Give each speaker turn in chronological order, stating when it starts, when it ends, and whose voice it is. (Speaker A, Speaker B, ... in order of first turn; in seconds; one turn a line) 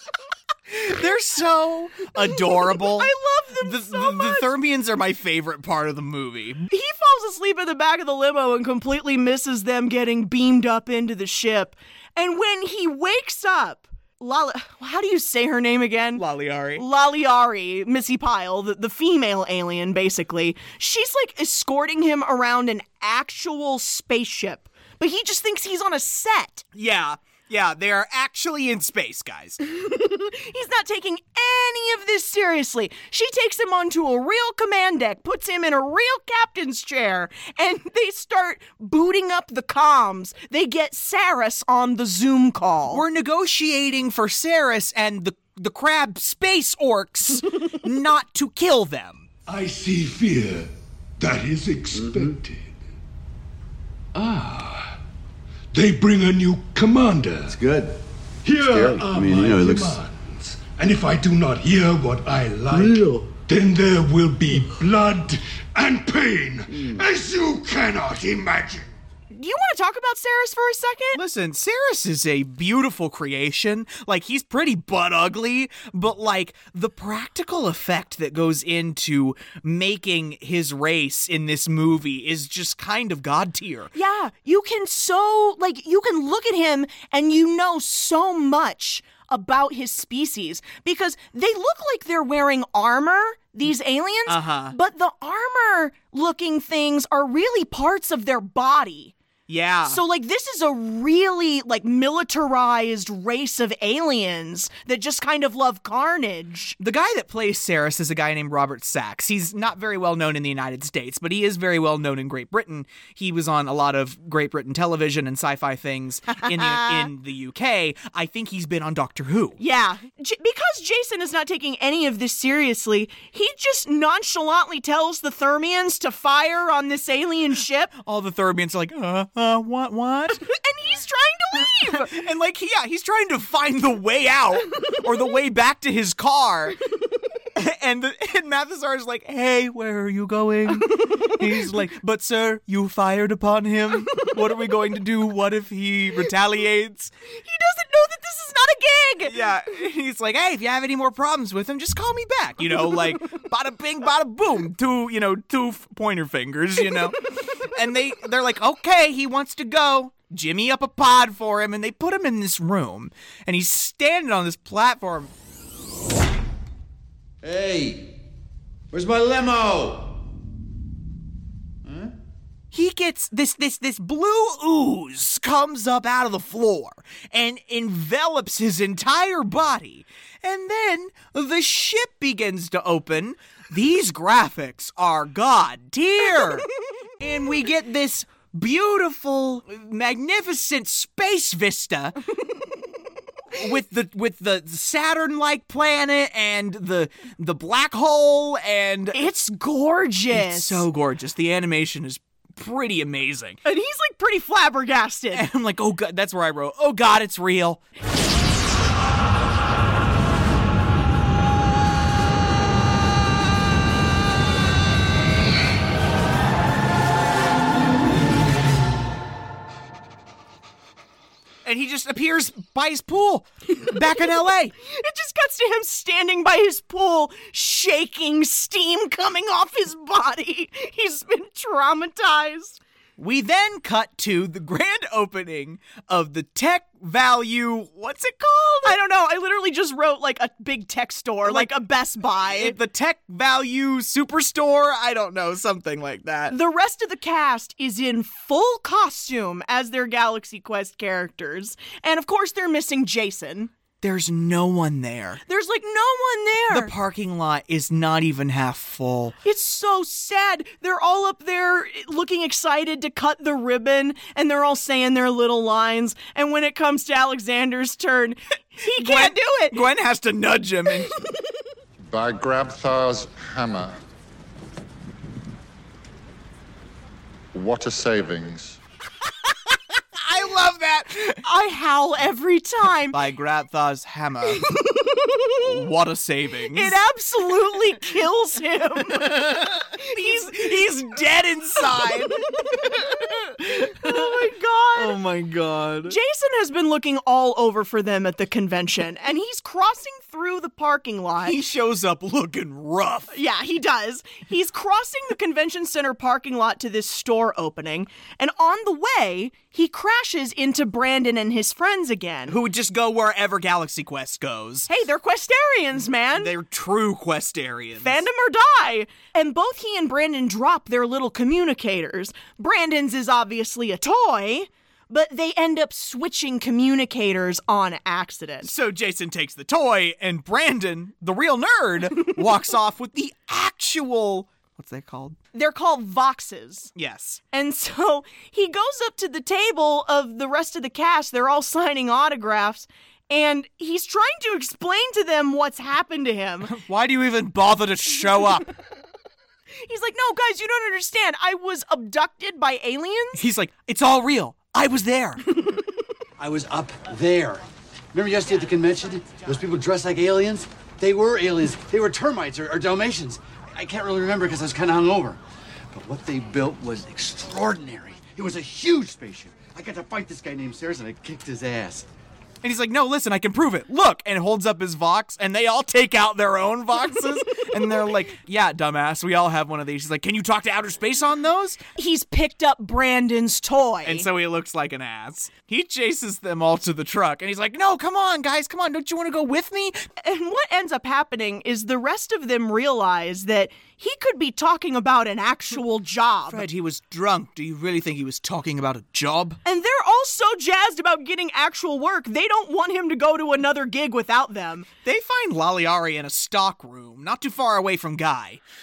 Speaker A: 0.7-6.7
Speaker B: 3.0-4.5
Speaker B: 6.7-16.2
Speaker A: 16.2-16.9
Speaker B: 16.8-26.6
Speaker A: 26.8-29.6
Speaker B: 29.6-43.0
Speaker A: 42.9-49.3
Speaker C: 49.5-52.7
Speaker D: 52.0-52.3
Speaker C: 54.1-54.9
Speaker C: 55.7-57.6
Speaker D: 57.5-58.0
Speaker C: 58.4-68.9
Speaker D: 58.6-60.0
Speaker D: 62.7-63.3
Speaker D: 66.7-67.0
Speaker B: 69.3-71.2
Speaker A: 71.1-83.9
Speaker B: 83.9-99.1
Speaker A: 94.3-94.8
Speaker A: 99.5-100.0
Speaker B: 99.9-106.8
Speaker A: 106.8-119.6
Speaker B: 116.4-117.1
Speaker B: 119.6-127.9
Speaker A: 128.1-130.4
Speaker B: 130.5-132.1
Speaker A: 131.9-136.8
Speaker A: 137.6-147.1
Speaker B: 147.3-149.3
Speaker A: 149.2-165.3
Speaker D: 167.4-168.1
Speaker D: 168.9-170.2
Speaker D: 171.8-172.1
Speaker A: 172.7-186.7
Speaker A: 187.2-192.2
Speaker A: 193.5-199.2
Speaker B: 199.1-200.9
Speaker A: 200.3-203.6
Speaker B: 203.6-205.4
Speaker A: 205.3-207.8
Speaker A: 221.6-224.7
Speaker B: 224.8-232.8
Speaker A: 233.2-239.0
Speaker B: 238.8-242.8
Speaker A: 242.4-246.6
Speaker B: 246.5-253.7
Speaker A: 254.0-255.4
Speaker B: 255.5-256.9
Speaker A: 256.7-259.4
Speaker B: 259.4-269.8
Speaker A: 268.9-271.1
Speaker E: 272.0-274.0
Speaker E: 277.5-278.8
Speaker A: 280.2-281.4
Speaker B: 281.4-283.2
Speaker A: 283.1-284.8
Speaker A: 285.6-286.9
Speaker B: 286.7-289.4
Speaker A: 289.2-292.4
Speaker B: 290.1-290.6
Speaker B: 293.6-295.2
Speaker A: 293.7-294.4
Speaker A: 294.9-296.2
Speaker B: 296.1-301.6
Speaker A: 301.4-303.3
Speaker B: 303.3-312.6
Speaker A: 312.5-314.9
Speaker B: 314.9-316.5
Speaker A: 316.4-318.2
Speaker B: 318.0-328.7
Speaker A: 328.6-335.4
Speaker B: 335.5-336.9
Speaker A: 336.9-337.4
Speaker B: 337.5-346.7
Speaker A: 346.7-348.7
Speaker B: 349.9-353.4
Speaker A: 353.4-355.4
Speaker D: 356.4-365.4
Speaker D: 365.9-372.1
Speaker A: 372.6-381.8
Speaker B: 382.0-384.3
Speaker A: 384.1-390.0
Speaker B: 390.2-396.6
Speaker A: 396.5-399.6
Speaker B: 399.6-404.9
Speaker A: 405.0-408.6